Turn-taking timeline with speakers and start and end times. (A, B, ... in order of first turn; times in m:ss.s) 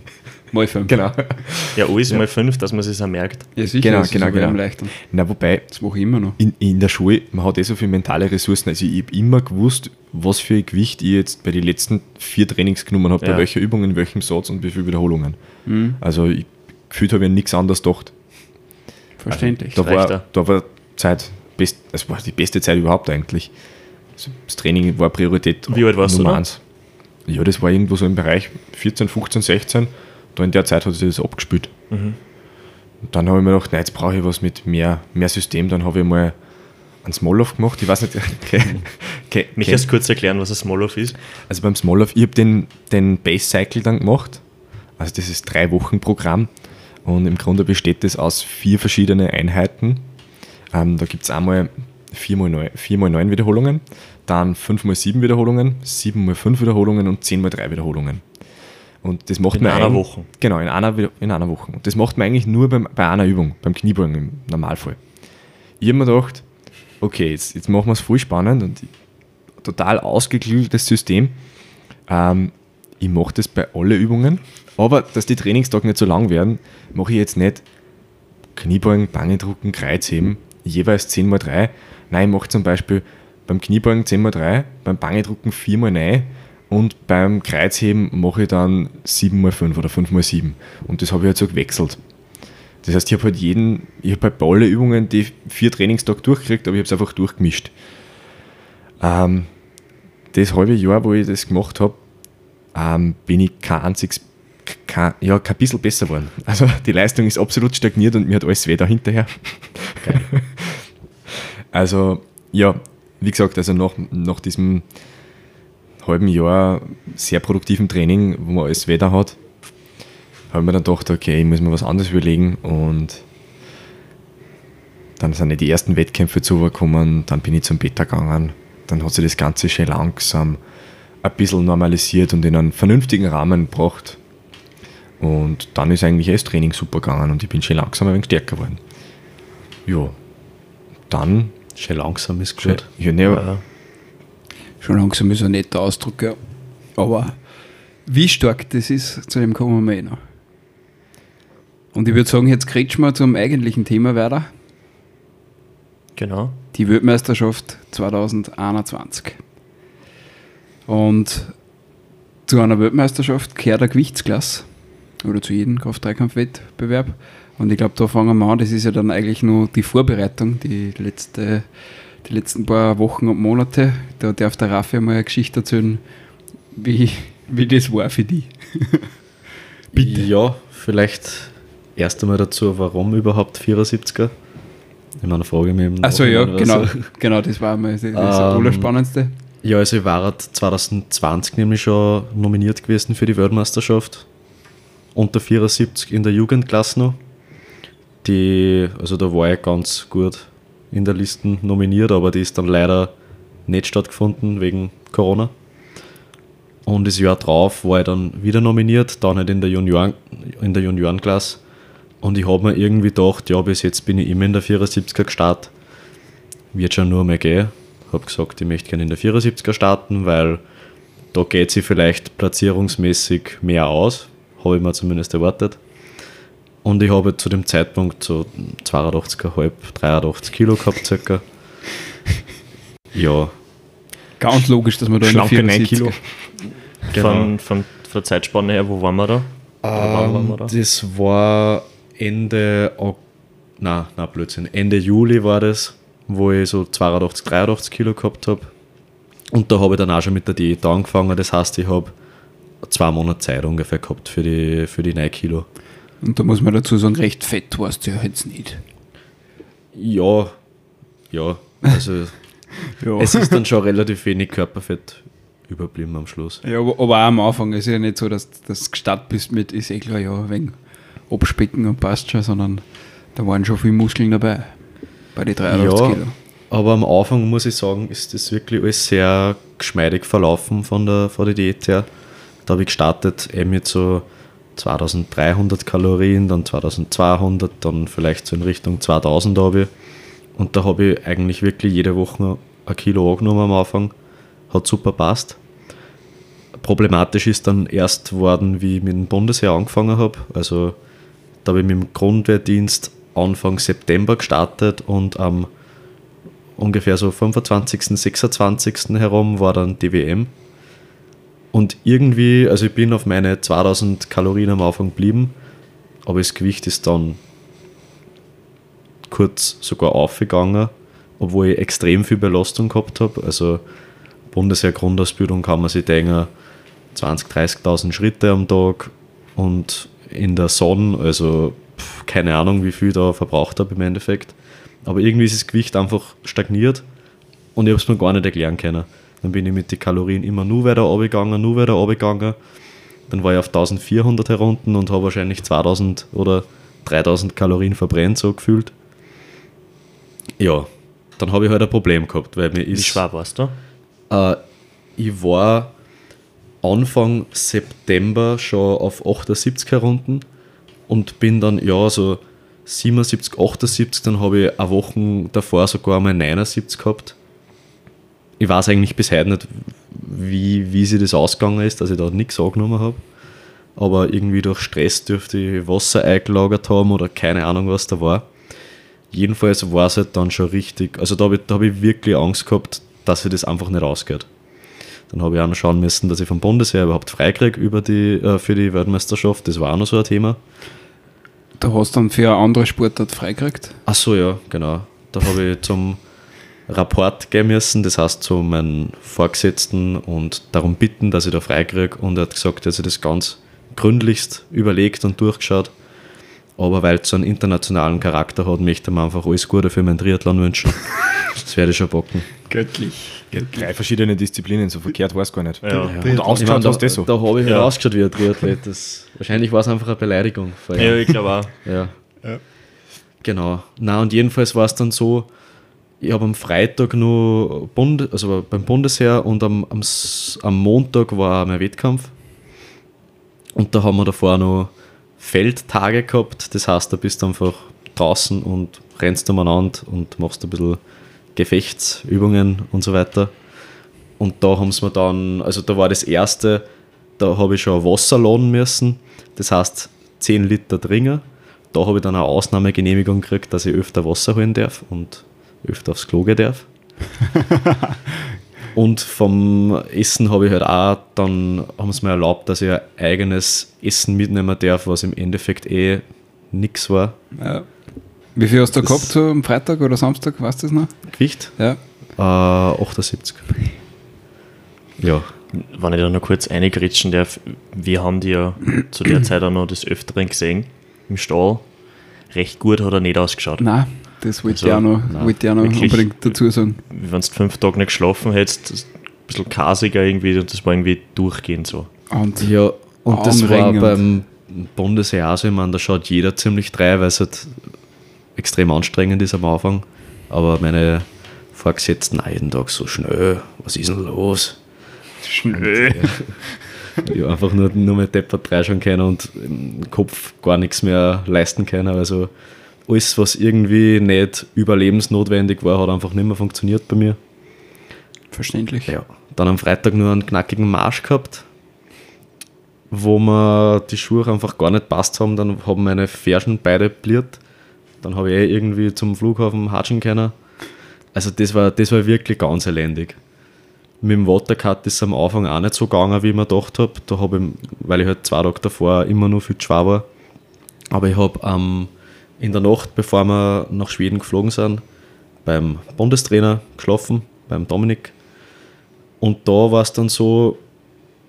0:00.5-0:01.2 A
0:00.9-0:02.2 B
0:01.7-0:03.5 C
0:03.5-0:06.4 A
0:03.8-0:05.7 B
0:06.4-0:15.4 B
0:13.2-0:13.5 C
0:15.6-0:16.0 A
0:16.0-0:18.1 B
0:19.2-0:19.8 A
0:19.3-0:23.5 B
0:19.7-0:20.2 C
0:24.2-0:26.6 B
0:25.7-0:26.4 C
0:27.2-0:31.7 B
0:31.9-0:32.2 C
0:33.0-0:36.4 B
0:37.0-0:39.8 B
0:39.6-0:41.2 C
0:41.5-0:44.4 B
0:45.0-0:46.5 B
0:47.0-0:50.0 B
0:50.7-0:58.2 B
0:59.0-1:05.0 B
0:59.5-1:00.3 C
1:05.8-1:06.4 B
1:07.0-1:08.9 B
1:09.6-1:11.4 B
1:12.1-1:17.6 B
1:18.5-1:32.0 B
1:32.8-1:37.7 B
1:39.0-1:39.5 B
1:40.3-1:42.0 B
1:42.7-1:50.8 B
1:51.7-1:54.9 B
1:56.0-1:59.4 B
2:00.5-2:03.2 B
2:05.2-2:10.6 B
2:11.2-2:14.2 B
2:15.2-2:18.8 B
2:19.8-2:20.2 B
2:21.1-2:21.5 B
2:21.8-2:22.9 D
2:22.6-2:23.5 B
2:23.2-2:23.6 C
2:24.8-2:26.4 A
2:27.0-2:27.4 A
2:28.0-2:30.2 A
2:31.9-2:34.5 A
2:36.2-2:36.6 C
2:36.7-2:39.4 A
2:40.9-2:41.6 A
2:42.5-2:44.7 A
2:45.2-2:51.7 A
2:52.2-2:56.0 A
2:56.7-2:59.1 A
2:59.9-3:00.3 A
2:59.9-3:04.3 D
3:05.2-3:07.1 D
3:06.0-3:09.3 A
3:08.1-3:08.9 D
3:09.6-3:14.3 D
3:15.1-3:17.2 D
3:18.2-3:23.1 D
3:23.7-3:25.5 D
3:26.8-3:31.6 D
3:32.2-3:35.7 D
3:36.7-3:40.6 D
3:41.3-3:45.8 D
3:46.8-3:51.4 D
3:53.1-3:53.5 D
3:54.4-3:56.2 A
3:55.2-3:56.4 B
3:57.1-3:57.5 D
3:57.1-4:00.7 C
3:59.8-4:03.2 D
4:03.8-4:08.7 D
4:09.5-4:12.1 D
4:12.8-4:15.7 D
4:16.2-4:18.8 A
4:19.9-4:20.6 D
4:21.3-4:22.4 D
4:22.8-4:23.6 A
4:23.2-4:26.6 D
4:26.6-4:34.8 A
4:35.3-4:36.3 A
4:35.7-4:42.1 D
4:42.6-4:49.9 D
4:50.5-4:54.1 D
4:54.7-4:55.6 D
4:56.8-5:01.0 D
5:01.6-5:05.7 D
5:06.8-5:10.5 D
5:11.7-5:15.5 D
5:16.2-5:17.4 D
5:19.3-5:23.8 D
5:24.5-5:26.5 D
5:27.1-5:37.0 D
5:37.7-5:42.6 D
5:43.3-5:48.9 D
5:50.6-5:53.2 D
5:52.9-5:53.8 C
5:54.3-5:54.6 D
5:55.2-5:55.9 D
5:56.8-6:00.4 D
6:01.1-6:07.3 D
6:08.6-6:13.2 D
6:14.0-6:18.5 D
6:19.3-6:24.5 D
6:25.3-6:30.6 D
6:31.8-6:34.0 A
6:34.0-6:36.2 D
6:36.9-6:45.9 D
6:46.8-6:52.5 D
6:52.6-6:53.8 A
6:53.5-6:57.3 B
6:55.8-6:56.4 C
6:56.0-6:56.8 A
6:56.0-7:02.1 D
6:57.6-6:57.9 C
7:01.0-7:01.8 C
7:03.4-7:05.5 D
7:06.2-7:12.3 D
7:13.7-7:21.0 D
7:21.5-7:23.5 D
7:24.4-7:26.8 D
7:27.4-7:36.8 D
7:38.9-7:47.4 D
7:47.6-7:47.9 A
7:48.5-7:52.0 A
7:49.0-7:49.3 D
7:51.3-7:51.8 D
7:52.4-7:53.8 D
7:55.2-7:55.5 D
7:55.7-8:01.9 C
8:02.5-8:03.9 C
8:03.8-8:07.0 A
8:04.6-8:12.1 C
8:12.3-8:14.2 A
8:12.6-8:17.8 D
8:18.6-8:24.8 D
8:25.4-8:26.7 A
8:25.7-8:26.6 D
8:27.2-8:32.5 D
8:33.1-8:37.4 D
8:38.5-8:39.1 A
8:39.1-8:41.6 D
8:43.1-8:47.6 D
8:48.2-8:50.5 D
8:51.3-8:53.4 D
8:54.2-9:00.3 D
9:01.1-9:05.0 D
9:05.6-9:08.3 D
9:09.4-9:10.8 D